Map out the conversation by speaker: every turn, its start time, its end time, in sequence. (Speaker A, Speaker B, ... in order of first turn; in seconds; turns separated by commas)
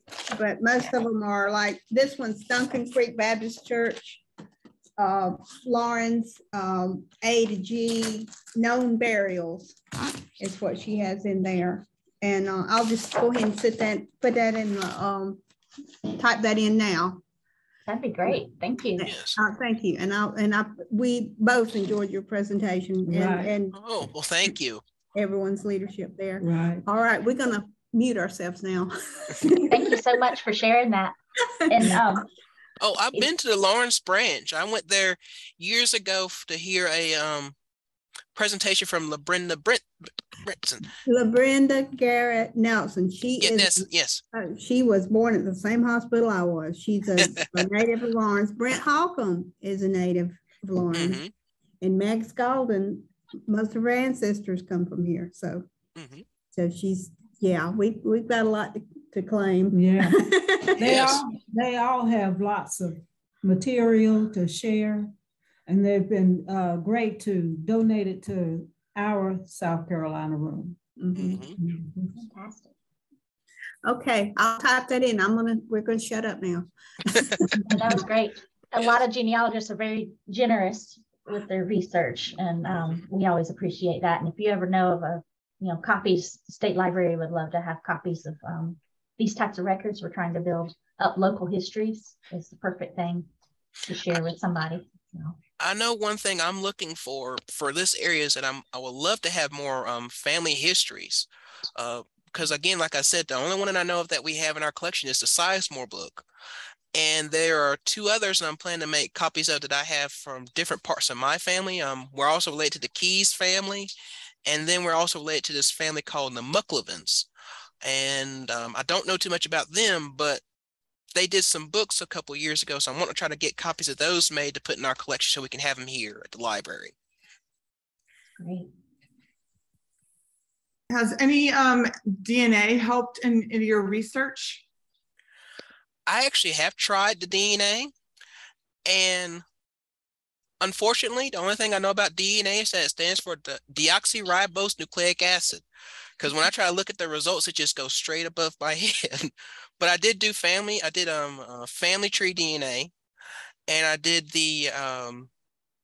Speaker A: 0.3-4.2, Speaker A: 5.0-15.4, Speaker A: 16.2-17.2, Speaker B: 17.9-19.1, Speaker A: 19.0-23.8, Speaker C: 19.0-19.4, Speaker D: 23.0-23.5, Speaker C: 23.7-24.8, Speaker A: 25.1-30.2, Speaker D: 26.4-26.8, Speaker B: 29.7-31.1, Speaker B: 31.7-32.2, Speaker C: 32.8-37.5, Speaker C: 38.3-39.9, Speaker C: 40.4-40.9, Speaker A: 41.0-51.2, Speaker C: 43.4-44.2, Speaker C: 50.9-51.3, Speaker A: 51.8-55.7, Speaker C: 56.0-56.2, Speaker A: 56.5-61.0, Speaker D: 59.7-65.1, Speaker C: 60.8-61.2, Speaker D: 65.7-70.8, Speaker A: 71.0-71.4, Speaker C: 71.1-71.6, Speaker D: 71.6-72.1, Speaker B: 72.1-72.7, Speaker A: 73.8-77.9, Speaker B: 77.6-93.3, Speaker B: 93.8-95.4, Speaker C: 95.6-106.3, Speaker C: 106.9-113.9, Speaker C: 114.5-117.3, Speaker C: 117.8-120.4, Speaker C: 121.1-126.9, Speaker B: 128.4-128.7, Speaker E: 130.9-134.6, Speaker C: 136.1-137.9, Speaker C: 138.8-139.4, Speaker C: 140.6-145.6, Speaker C: 146.2-152.9, Speaker C: 153.7-155.3